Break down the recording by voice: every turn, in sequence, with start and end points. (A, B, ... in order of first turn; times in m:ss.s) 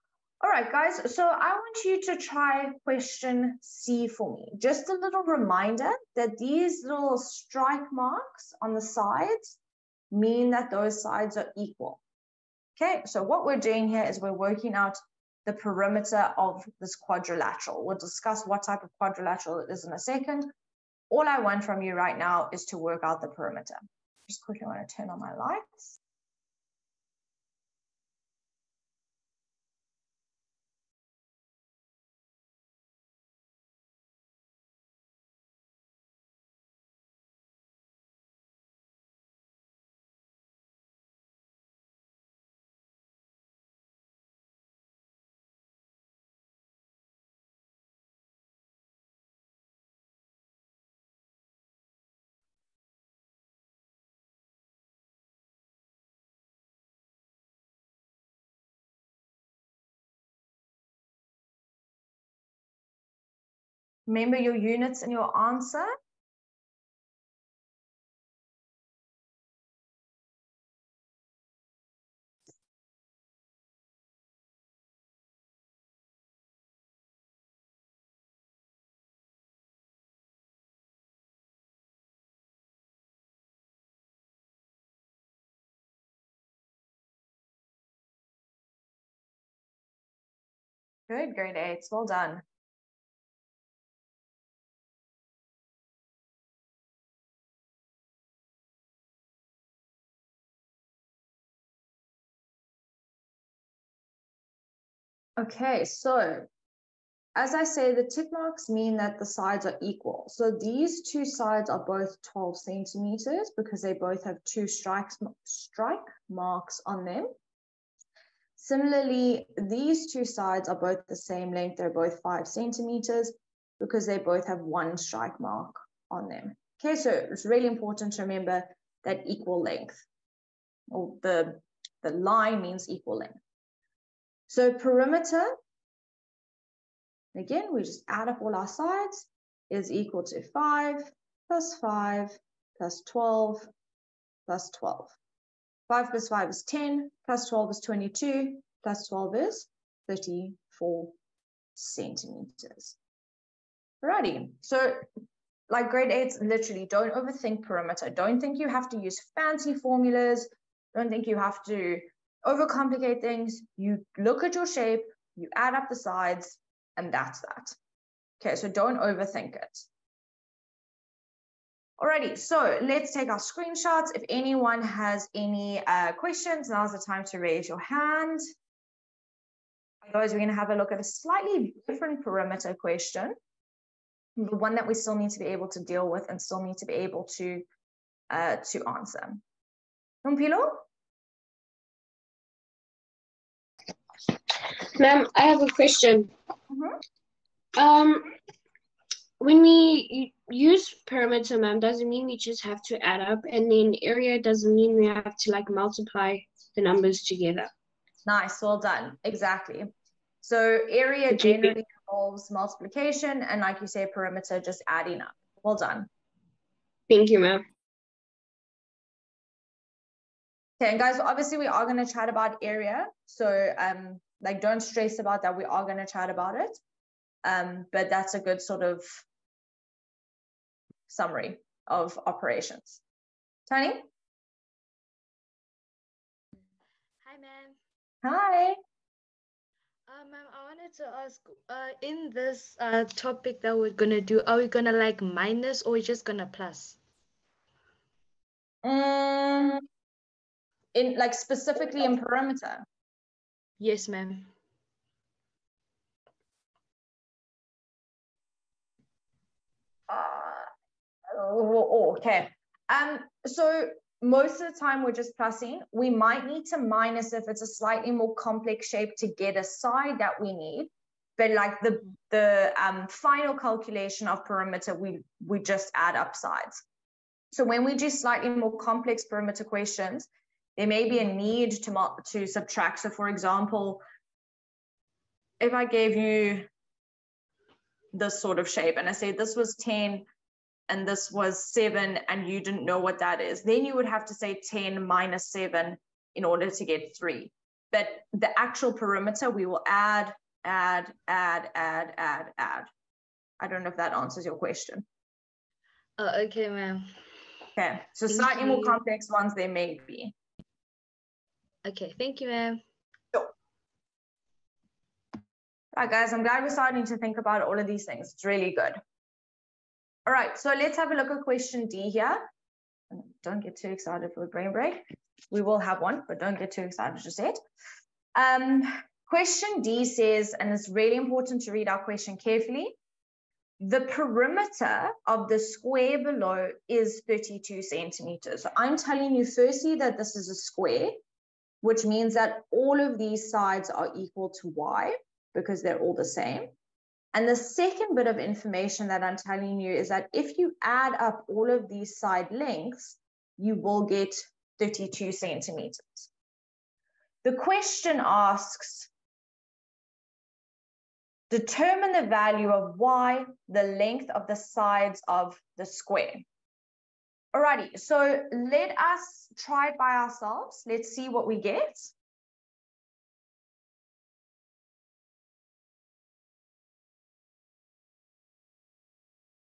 0:00.4-0:09.5 A
0:10.1-0:12.0 A
0:12.8-0:20.5 A
0:21.1-0:26.0 A
1:04.1-1:05.9 A
1:31.1-1:32.4 A
1:45.4-1:46.5 A
1:47.3-1:57.3 A
1:58.6-2:10.0 A
2:10.9-2:13.4 A
2:14.5-2:15.5 A
2:17.3-2:23.7 A
2:24.5-2:25.1 A
2:25.9-2:31.1 A
2:31.8-2:33.0 A
2:34.0-2:35.1 A
2:35.7-2:47.8 A
2:48.4-2:49.9 A
2:52.0-2:58.4 A
3:00.0-3:03.3 A
3:04.4-3:07.6 A
3:08.3-3:09.4 A
3:10.2-3:10.8 A
3:14.9-3:16.3 B
3:16.7-3:17.0 A
3:17.7-3:18.3 B
3:19.4-3:27.7 B
3:28.2-3:29.9 A
3:30.4-3:36.1 A
3:31.3-3:31.7 B
3:37.1-3:37.6 B
3:40.8-3:46.8 A
3:47.4-3:49.2 A
3:51.1-3:53.0 A
3:53.7-3:54.1 A
3:57.2-3:57.8 C
3:58.2-3:58.8 A
4:00.1-4:07.0 C
4:08.8-4:09.8 A
4:10.9-4:12.8 A
4:13.8-4:14.5 C
4:20.1-4:20.7 A
4:21.3-4:36.8 A
4:37.5-4:44.0 A
4:45.6-4:46.7 A
4:48.1-4:50.2 A
4:50.9-5:02.9 A
5:03.6-5:05.0 A
5:06.2-5:07.1 C
5:07.8-5:10.3 A
5:08.3-5:09.0 C
5:11.8-5:12.8 C
5:15.9-5:19.0 A
5:20.2-5:22.5 A
5:23.1-5:27.6 A
5:28.3-5:33.0 A
5:33.8-5:41.2 A
5:41.8-5:46.7 A
5:47.3-5:56.3 A
5:57.4-5:59.1 A
6:01.5-6:06.4 A
6:07.5-6:12.1 A